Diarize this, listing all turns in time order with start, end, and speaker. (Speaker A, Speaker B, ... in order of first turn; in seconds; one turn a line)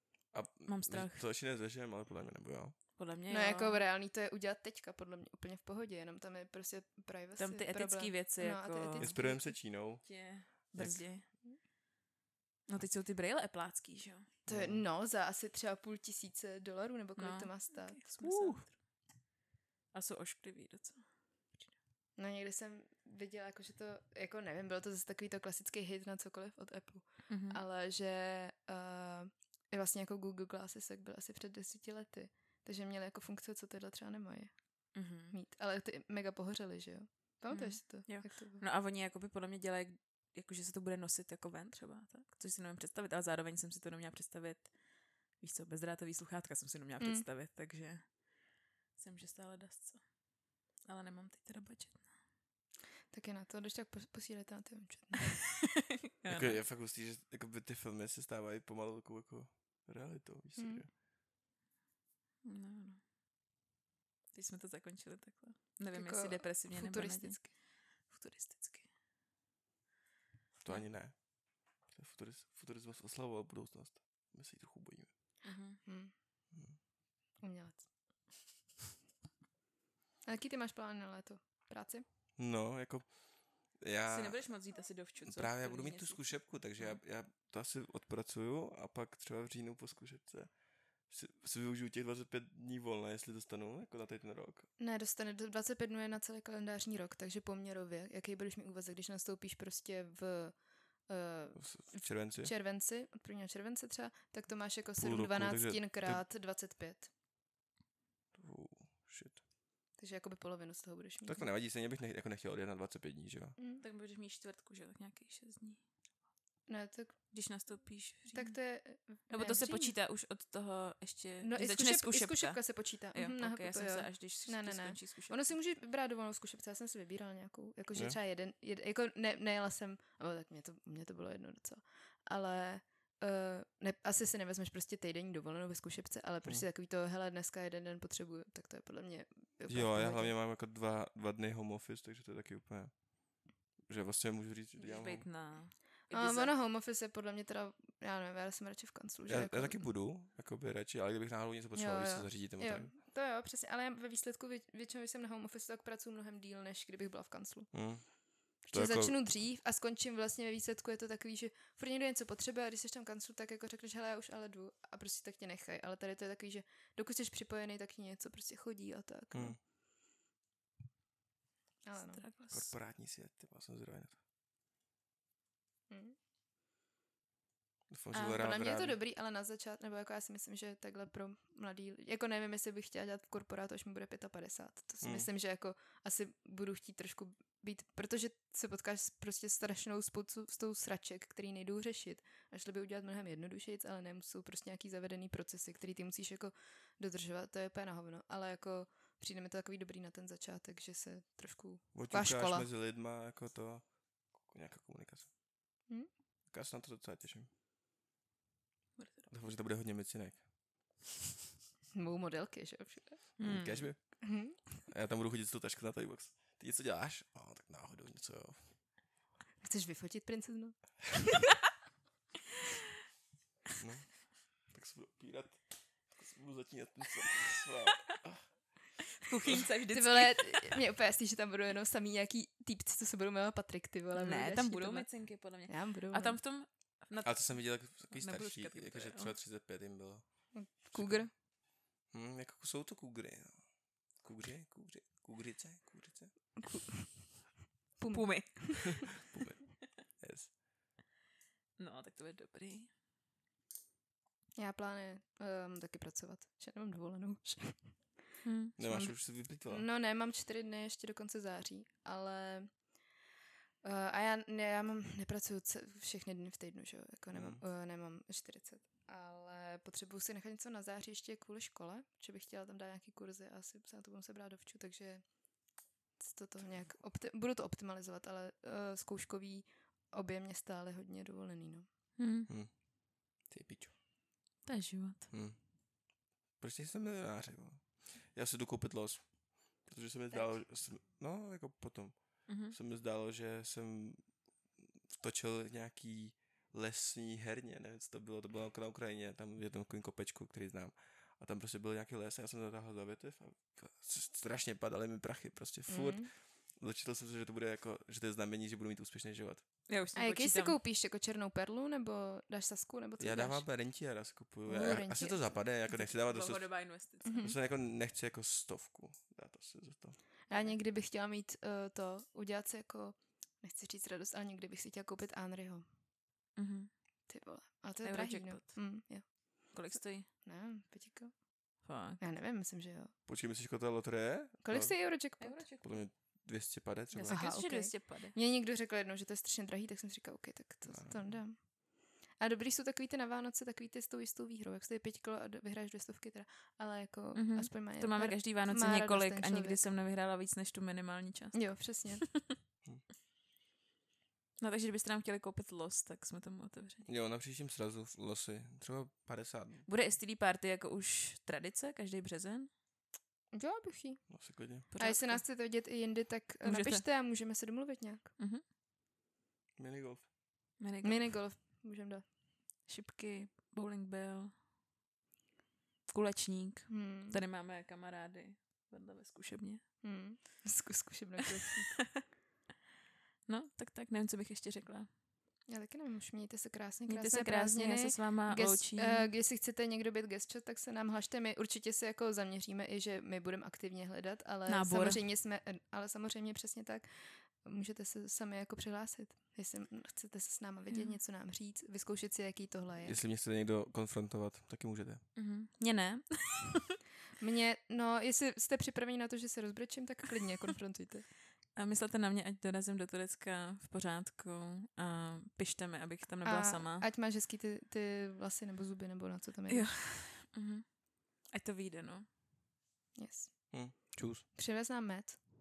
Speaker A: 0.3-2.8
Speaker B: 0.7-1.2
Speaker B: 3.0-3.8
Speaker C: 3.3-9.5
Speaker B: 7.4-9.2
Speaker A: 9.0-10.1
Speaker B: 10.0-11.2
Speaker A: 10.7-11.0
Speaker B: 12.7-14.3
Speaker A: 14.4-14.8
Speaker C: 14.5-18.0
Speaker B: 17.2-18.8
Speaker A: 18.2-18.6
Speaker B: 19.9-21.7
Speaker C: 22.2-34.5
Speaker B: 27.3-27.6
Speaker B: 34.9-35.4
Speaker C: 35.3-38.6
Speaker B: 37.5-44.7
Speaker B: 45.4-48.1
Speaker B: 49.0-50.0
Speaker B: 50.9-52.1
Speaker C: 53.1-55.4
Speaker B: 55.3-56.6
Speaker A: 56.3-60.9
Speaker C: 60.5-60.8
Speaker B: 62.4-63.0
Speaker B: 64.3-67.5
Speaker C: 65.9-67.5
Speaker B: 68.1-68.9
Speaker A: 70.6-71.2
Speaker A: 71.9-75.1
Speaker B: 75.4-75.8
Speaker C: 75.8-76.1
Speaker C: 77.4-77.8
Speaker C: 80.2-82.0
Speaker A: 82.4-83.1
Speaker A: 83.8-84.4
Speaker B: 84.1-87.0
Speaker A: 85.2-90.5
Speaker A: 91.1-94.7
Speaker C: 94.8-100.5
Speaker C: 101.1-107.1
Speaker A: 101.5-102.5
Speaker A: 105.0-106.2
Speaker A: 108.3-109.4
Speaker C: 110.0-111.5
Speaker A: 111.2-113.6
Speaker C: 113.6-113.8
Speaker B: 113.8-115.8
Speaker C: 116.7-117.2
Speaker B: 117.3-118.5
Speaker C: 118.3-119.9
Speaker B: 119.3-125.5
Speaker C: 121.4-140.3
Speaker A: 139.7-142.9
Speaker A: 143.9-145.2
Speaker B: 144.8-146.5
Speaker C: 146.1-149.9
Speaker A: 149.3-152.9
Speaker C: 151.7-157.7
Speaker A: 157.7-159.4
Speaker C: 158.6-169.6
Speaker A: 169.3-169.6
Speaker C: 171.8-172.2
Speaker B: 171.9-172.7
Speaker A: 172.5-174.2
Speaker C: 175.9-176.2
Speaker A: 177.9-179.0
Speaker C: 178.1-202.7
Speaker A: 185.0-185.3
Speaker A: 201.9-203.9
Speaker A: 204.4-205.3
Speaker A: 206.5-207.5
Speaker B: 209.0-209.3
Speaker A: 209.3-210.4
Speaker C: 211.9-213.2
Speaker B: 213.4-213.9
Speaker A: 213.4-214.2
Speaker C: 214.2-214.8
Speaker A: 214.8-218.7
Speaker C: 219.6-221.3
Speaker A: 223.8-224.2
Speaker A: 224.7-228.5
Speaker B: 229.2-230.8
Speaker C: 229.9-236.4
Speaker B: 234.1-239.3
Speaker A: 237.2-241.3
Speaker C: 240.5-241.3
Speaker A: 242.1-243.6
Speaker A: 244.2-246.3
Speaker C: 246.6-247.4
Speaker C: 248.0-249.1
Speaker B: 248.1-249.2
Speaker A: 249.2-250.5
Speaker B: 251.8-252.9
Speaker C: 254.6-257.9
Speaker B: 258.4-258.7
Speaker A: 258.8-259.8
Speaker C: 258.8-262.7
Speaker C: 263.8-275.2
Speaker A: 267.3-267.6
Speaker C: 276.2-281.9
Speaker B: 282.2-282.5
Speaker A: 283.5-283.9
Speaker B: 284.6-285.3
Speaker A: 285.3-285.6
Speaker A: 286.6-289.3
Speaker A: 289.8-294.2
Speaker B: 292.5-292.8
Speaker A: 295.1-309.6
Speaker C: 305.9-306.3
Speaker B: 309.9-310.8
Speaker C: 310.1-313.6
Speaker A: 313.2-316.9
Speaker C: 314.6-315.6
Speaker B: 315.9-317.4
Speaker C: 317.2-317.6
Speaker A: 317.4-320.2
Speaker C: 320.5-325.8
Speaker B: 320.5-320.8
Speaker B: 326.6-326.9
Speaker C: 327.3-329.7
Speaker B: 328.0-328.8
Speaker B: 329.7-330.3
Speaker C: 330.4-331.3
Speaker B: 331.8-332.2
Speaker C: 332.2-333.1
Speaker A: 333.3-335.0
Speaker C: 334.6-335.6
Speaker B: 335.4-336.0
Speaker A: 335.8-337.5
Speaker B: 337.1-338.3
Speaker C: 337.3-341.7
Speaker A: 340.9-341.4
Speaker C: 342.4-349.8
Speaker B: 347.3-352.4
Speaker C: 351.5-352.2
Speaker B: 354.6-357.1
Speaker A: 357.1-359.8
Speaker B: 359.9-362.7
Speaker C: 363.5-364.2
Speaker A: 364.3-364.9
Speaker B: 364.9-365.4
Speaker C: 364.9-368.3
Speaker B: 366.6-367.0
Speaker B: 368.4-368.6
Speaker A: 369.8-370.2
Speaker B: 370.8-371.3
Speaker C: 371.0-372.2
Speaker B: 372.9-374.5
Speaker B: 376.1-379.8
Speaker C: 376.9-377.4
Speaker C: 380.0-382.0
Speaker B: 383.5-385.1
Speaker C: 385.7-397.1
Speaker B: 387.1-389.3
Speaker B: 394.7-395.2
Speaker C: 397.6-403.2
Speaker B: 400.9-401.2
Speaker A: 403.0-405.2
Speaker B: 405.3-406.9
Speaker C: 407.4-411.2
Speaker B: 411.7-417.0
Speaker C: 416.4-419.9
Speaker B: 419.7-422.3
Speaker C: 423.2-425.4
Speaker A: 423.7-424.4